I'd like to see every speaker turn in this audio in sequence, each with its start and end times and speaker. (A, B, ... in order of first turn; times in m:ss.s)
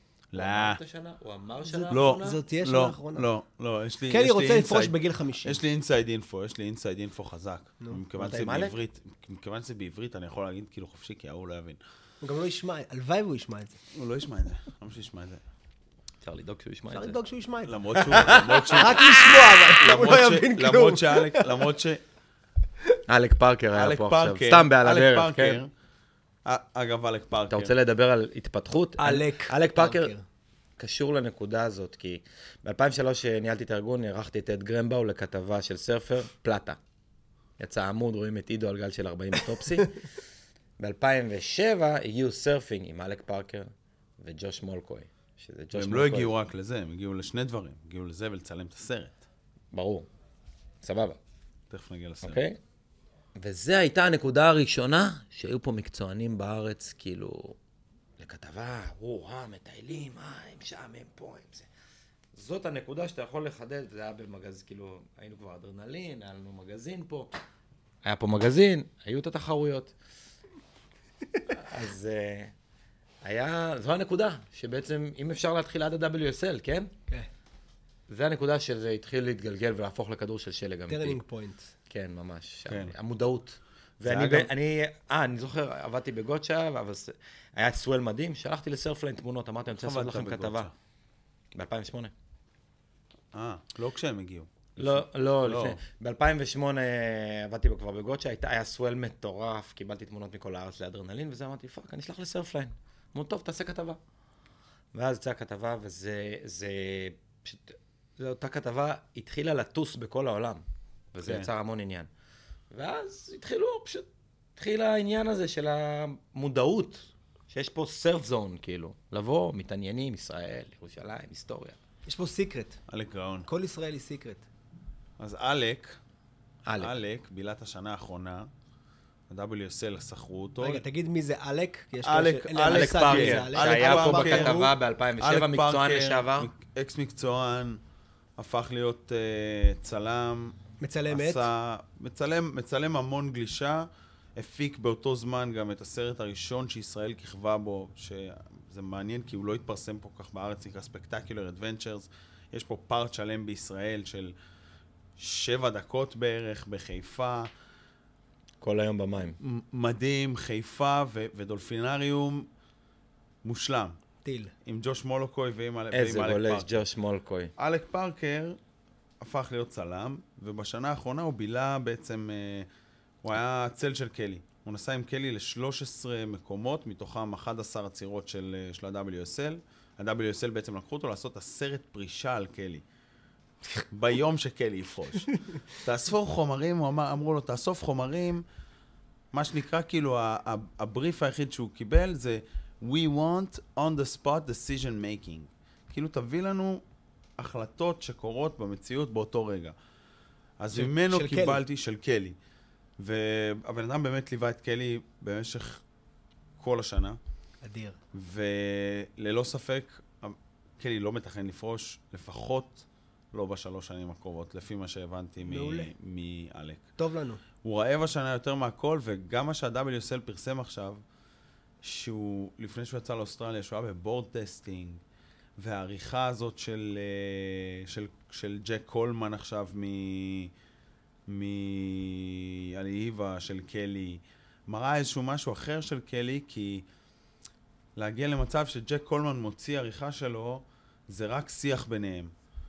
0:00.3-0:00.8 A
0:00.4-0:02.4 B
0:01.6-0:03.3 C
0:01.9-0:11.8 A
0:04.1-0:05.6 C
0:08.2-0:08.8 B
0:12.2-0:13.8 C
0:13.9-0:15.4 A
0:16.2-0:17.2 B
0:16.9-0:17.8 C
0:17.7-0:22.0 A
0:18.0-0:19.5 B
0:18.7-0:21.7 C
0:23.1-0:25.6 B
0:23.7-0:25.7 A
0:26.4-0:27.7 A
0:27.5-0:30.1 B
0:29.0-0:30.2 C
0:30.8-0:36.8 B
0:37.6-0:40.0 B
0:40.8-0:46.3 B
0:45.7-0:49.2 A
0:49.7-0:50.1 B
0:50.8-0:51.2 B
0:51.7-0:52.4 A
0:52.2-0:52.6 B
0:53.4-0:57.6 B
0:58.2-1:01.7 B
1:02.3-1:07.3 B
1:08.0-1:09.9 B
1:11.5-1:12.5 B
1:13.2-1:16.9 B
1:18.1-1:21.2 B
1:20.9-1:21.7 C
1:21.9-1:30.7 B
1:22.7-1:23.0 A
1:24.0-1:24.5 A
1:29.8-1:30.7 A
1:31.5-1:32.1 B
1:33.3-1:35.8 A
1:34.8-1:44.0 B
1:44.9-1:52.1 B
1:51.2-1:51.5 A
1:52.7-2:01.8 B
2:02.1-2:02.8 C
2:02.9-2:03.5 A
2:03.5-2:04.4 C
2:05.2-2:06.0 A
2:06.6-2:07.0 B
2:06.8-2:08.5 A
2:09.3-2:10.8 A
2:10.6-2:14.7 C
2:12.0-2:17.8 A
2:12.7-2:16.5 B
2:18.4-2:20.6 A
2:20.8-2:21.5 C
2:21.1-2:34.3 A
2:35.2-2:37.5 A
2:38.6-2:39.4 B
2:39.4-2:42.5 A
2:43.4-2:44.0 A
2:44.2-2:44.5 C
2:44.6-2:46.8 A
2:45.9-2:47.5 B
2:47.6-2:48.6 A
2:49.2-2:52.7 A
2:53.2-3:02.8 A
3:03.9-3:08.4 A
3:09.3-3:16.8 A
3:17.4-3:19.8 A
3:20.6-3:22.4 A
3:20.7-3:21.6 C
3:23.0-3:25.8 A
3:26.6-3:27.2 A
3:27.6-3:28.0 C
3:28.1-3:36.9 A
3:35.4-3:35.9 C
3:37.0-3:37.4 C
3:37.6-3:41.0 A
3:41.8-3:45.0 A
3:45.6-3:50.5 A
3:51.3-3:56.9 A
3:58.0-4:02.3 A